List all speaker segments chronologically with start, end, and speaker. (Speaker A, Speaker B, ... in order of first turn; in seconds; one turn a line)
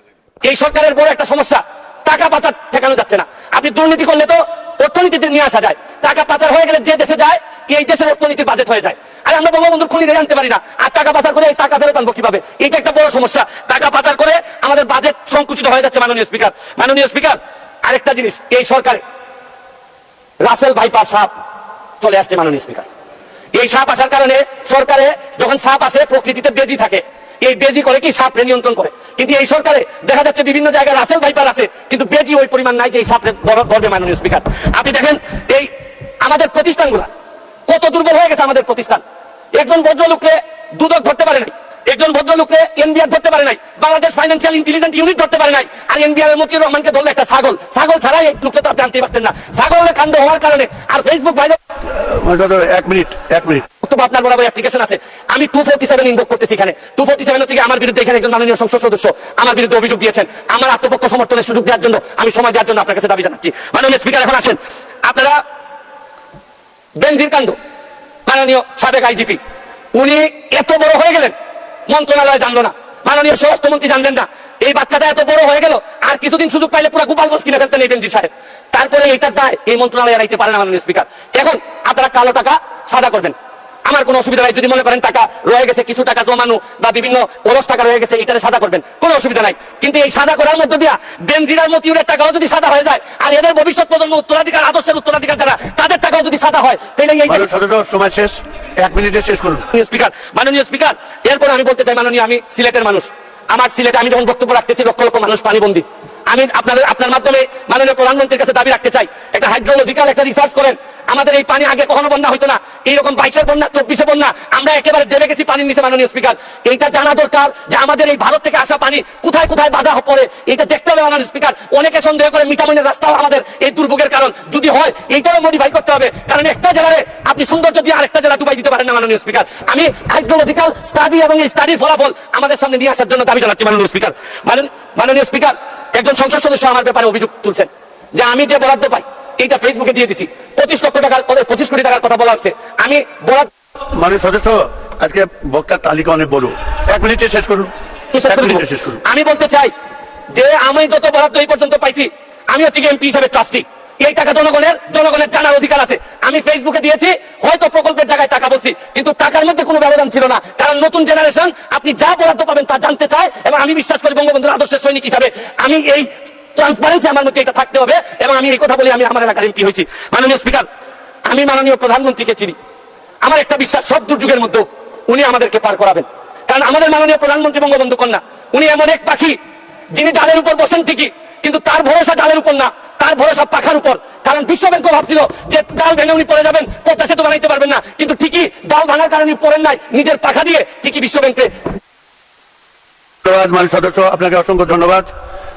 Speaker A: 0.4-19.0
Speaker A: 20.4-21.3
Speaker A: 22.0-22.9
Speaker A: 23.5-35.7
Speaker A: 36.2-37.1
Speaker A: 37.7-39.0
Speaker A: 39.5-51.6
Speaker B: 51.9-53.6
Speaker A: 53.8-65.4
Speaker A: 67.0-67.6
Speaker A: 68.3-69.4
Speaker A: 69.9-71.3
Speaker A: 71.9-83.3
Speaker A: 83.9-97.5
Speaker B: 97.3-99.6
Speaker A: 99.7-143.5
Speaker B: 143.9-147.7
Speaker A: 148.1-149.7
Speaker B: 148.3-149.0
Speaker A: 150.3-170.7
Speaker A: 171.3-172.6
Speaker A: 173.2-179.4
Speaker A: 179.9-191.5
Speaker B: 193.2-195.1